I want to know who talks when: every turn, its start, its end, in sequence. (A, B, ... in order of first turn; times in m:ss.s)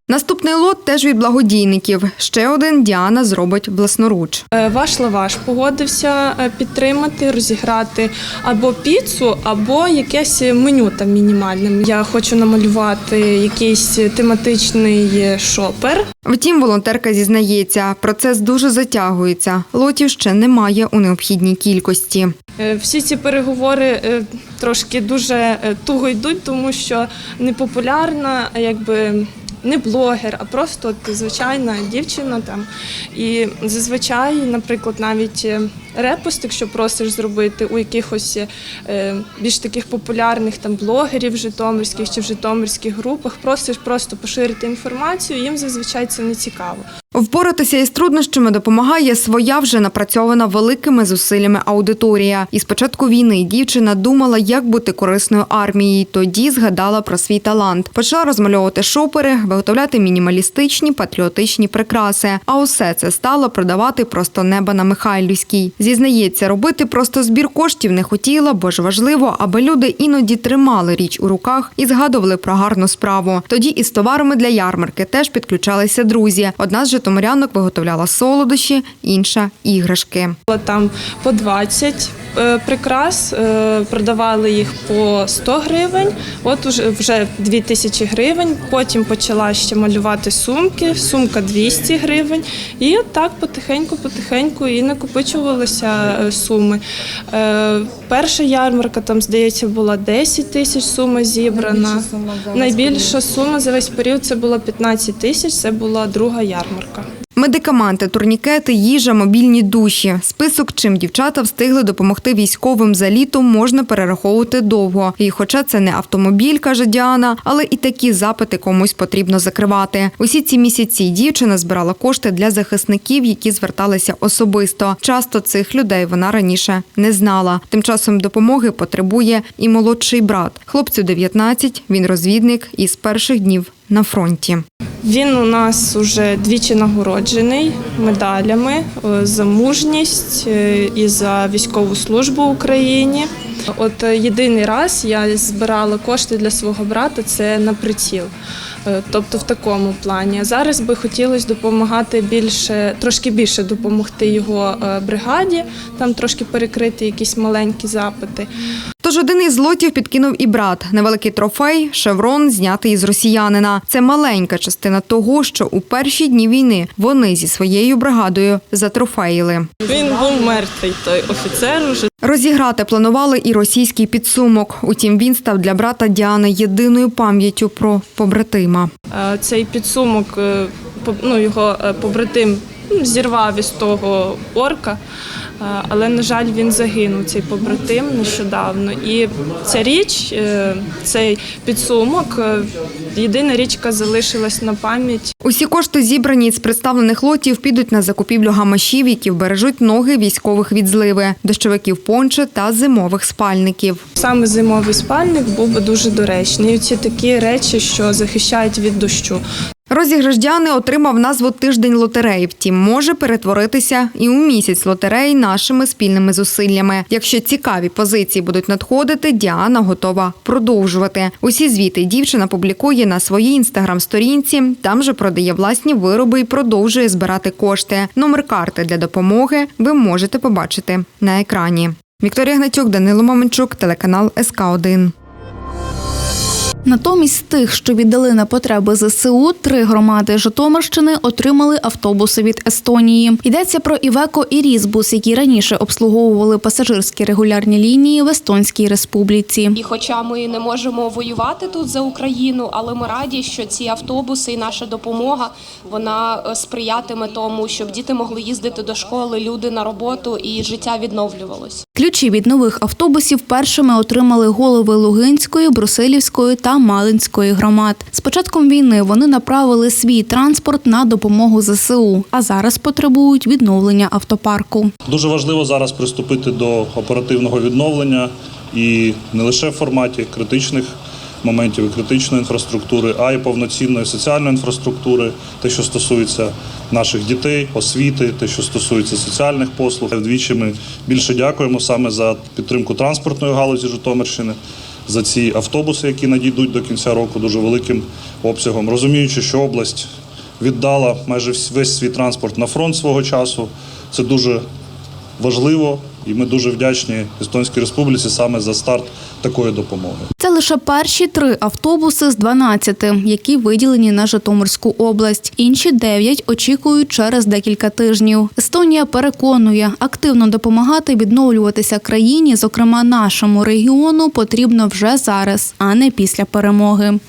0:00.1-0:04.4 A
0:04.6-0:16.1 B
0:16.3-0:22.4 A
0:22.6-0:46.9 B
0:47.2-1:20.4 A
1:20.5-1:47.1 B
1:47.4-2:14.6 A
2:15.0-2:28.3 B
2:28.9-2:38.5 B
2:39.0-2:49.7 A
2:49.8-2:52.1 B
2:52.2-2:58.9 A
2:59.1-3:05.0 B
3:05.6-3:15.3 B
3:15.4-3:24.0 A
3:24.2-3:29.4 B
3:29.9-3:55.1 A
3:56.8-4:09.8 C
4:09.7-4:21.8 D
4:22.0-4:34.9 C
4:35.1-5:04.6 E
5:05.4-5:10.3 E
5:10.4-5:27.2 C